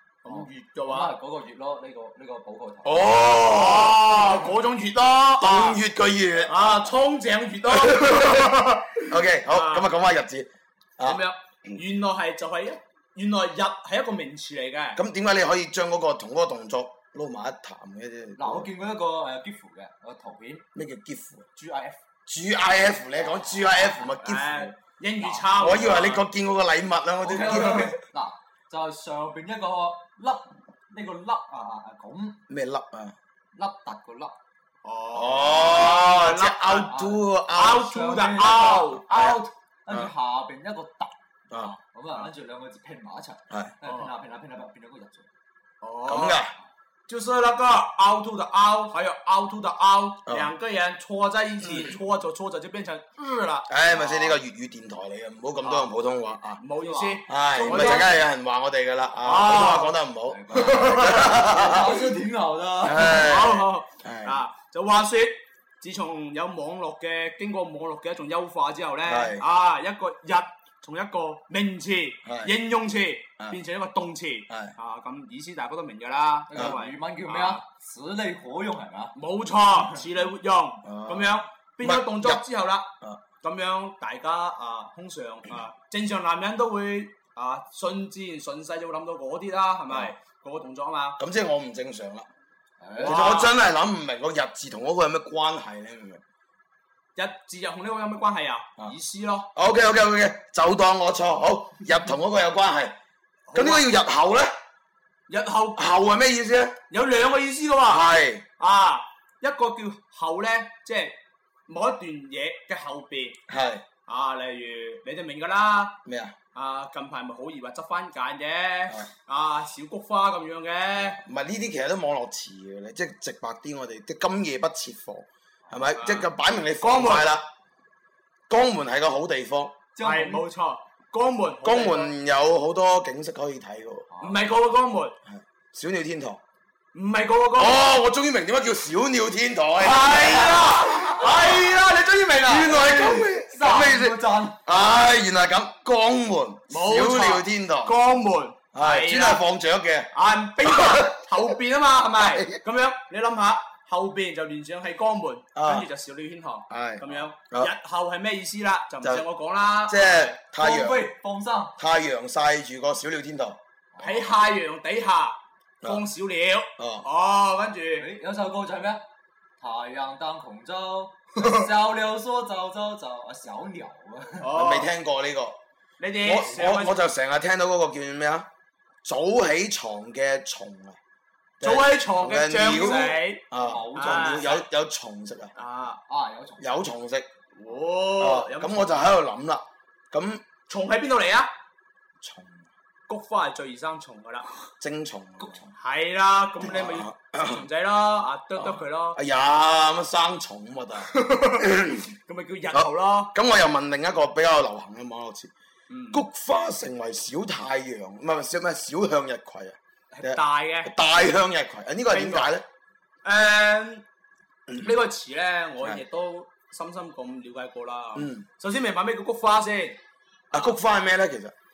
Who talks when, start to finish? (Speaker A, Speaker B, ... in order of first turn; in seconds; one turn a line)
Speaker A: 0.2-1.1
Speaker B: 0.2-3.2
Speaker C: 2.8-4.2
Speaker A: 3.3-5.8
Speaker C: 5.4-6.6
Speaker A: 6.5-9.9
Speaker C: 7.7-11.2
Speaker A: 11.0-15.0
Speaker C: 14.9-18.7
Speaker B: 18.4-20.6
Speaker C: 20.7-21.5
Speaker A: 21.6-21.9
Speaker B: 21.6-21.9
Speaker C: 22.3-27.9
Speaker B: 23.2-24.0
Speaker A: 23.9-26.3
Speaker B: 27.2-32.4
Speaker A: 27.4-27.9
Speaker C: 32.5-33.1
Speaker B: 33.5-34.4
Speaker A: 34.8-39.4
Speaker C: 35.1-38.0
Speaker B: 36.9-37.2
Speaker B: 37.8-45.3
Speaker C: 38.6-40.1
Speaker A: 43.8-44.1
Speaker A: 45.8-46.4
Speaker C: 46.0-46.5
Speaker A: 47.1-54.2
Speaker C: 50.2-50.5
Speaker C: 53.7-56.6
Speaker A: 55.6-55.9
Speaker A: 56.6-58.2
Speaker B: 56.8-58.2
Speaker C: 57.3-62.0
Speaker A: 59.2-59.9
Speaker B: 60.3-63.3
Speaker A: 60.5-61.3
Speaker C: 62.8-64.4
Speaker A: 63.0-77.6
Speaker C: 69.0-69.4
Speaker C: 72.2-72.5
Speaker B: 76.5-79.1
Speaker A: 79.1-82.9
Speaker C: 80.8-82.4
Speaker A: 83.4-91.2
Speaker C: 91.2-92.3
Speaker B: 92.8-93.2
Speaker A: 93.0-93.5
Speaker C: 93.0-96.2
Speaker A: 97.2-99.5
Speaker C: 99.5-102.9
Speaker A: 103.5-103.9
Speaker C: 103.5-104.5
Speaker A: 105.3-105.8
Speaker C: 105.8-106.8
Speaker A: 106.9-111.1
Speaker C: 107.8-108.4
Speaker A: 111.7-113.4
Speaker C: 113.5-113.8
Speaker A: 114.1-116.0
Speaker C: 116.0-116.3
Speaker A: 116.5-121.2
Speaker C: 121.0-127.5
Speaker A: 126.0-127.3
Speaker C: 128.5-129.8
Speaker B: 129.9-130.5
Speaker A: 130.0-132.1
Speaker C: 131.6-134.1
Speaker B: 134.1-134.4
Speaker A: 134.2-135.2
Speaker C: 135.3-136.4
Speaker A: 136.9-137.8
Speaker C: 137.6-141.6
Speaker A: 139.8-143.2
Speaker C: 142.4-147.9
Speaker B: 143.3-144.6
Speaker A: 146.7-149.4
Speaker C: 148.7-150.1
Speaker A: 150.1-160.3
Speaker C: 150.6-151.2
Speaker C: 152.2-152.6
Speaker C: 155.6-155.9
Speaker C: 156.7-157.7
Speaker C: 159.9-161.1
Speaker B: 160.6-161.8
Speaker C: 161.8-163.6
Speaker B: 163.9-164.3
Speaker A: 164.0-168.1
Speaker C: 166.8-167.1
Speaker B: 167.9-169.0
Speaker B: 169.6-174.5
Speaker A: 174.4-174.9
Speaker C: 174.5-175.6
Speaker A: 176.0-177.0
Speaker C: 176.2-178.5
Speaker C: 179.0-181.0
Speaker C: 181.6-185.5
Speaker A: 181.6-184.6
Speaker B: 183.6-184.5
Speaker A: 185.6-186.0
Speaker B: 186.1-186.7
Speaker C: 186.6-187.3
Speaker A: 187.5-189.0
Speaker C: 188.2-190.4
Speaker A: 190.7-191.5
Speaker C: 192.2-192.7
Speaker A: 193.1-194.5
Speaker C: 194.8-195.7
Speaker B: 195.4-195.7
Speaker A: 195.8-199.2
Speaker C: 196.6-197.6
Speaker C: 198.6-202.1
Speaker A: 201.1-203.3
Speaker C: 202.7-205.5
Speaker A: 205.9-206.2
Speaker C: 206.1-212.7
Speaker A: 210.1-210.9
Speaker A: 212.1-212.5
Speaker A: 213.2-214.0
Speaker A: 214.8-220.0
Speaker C: 218.2-218.4
Speaker C: 220.5-221.5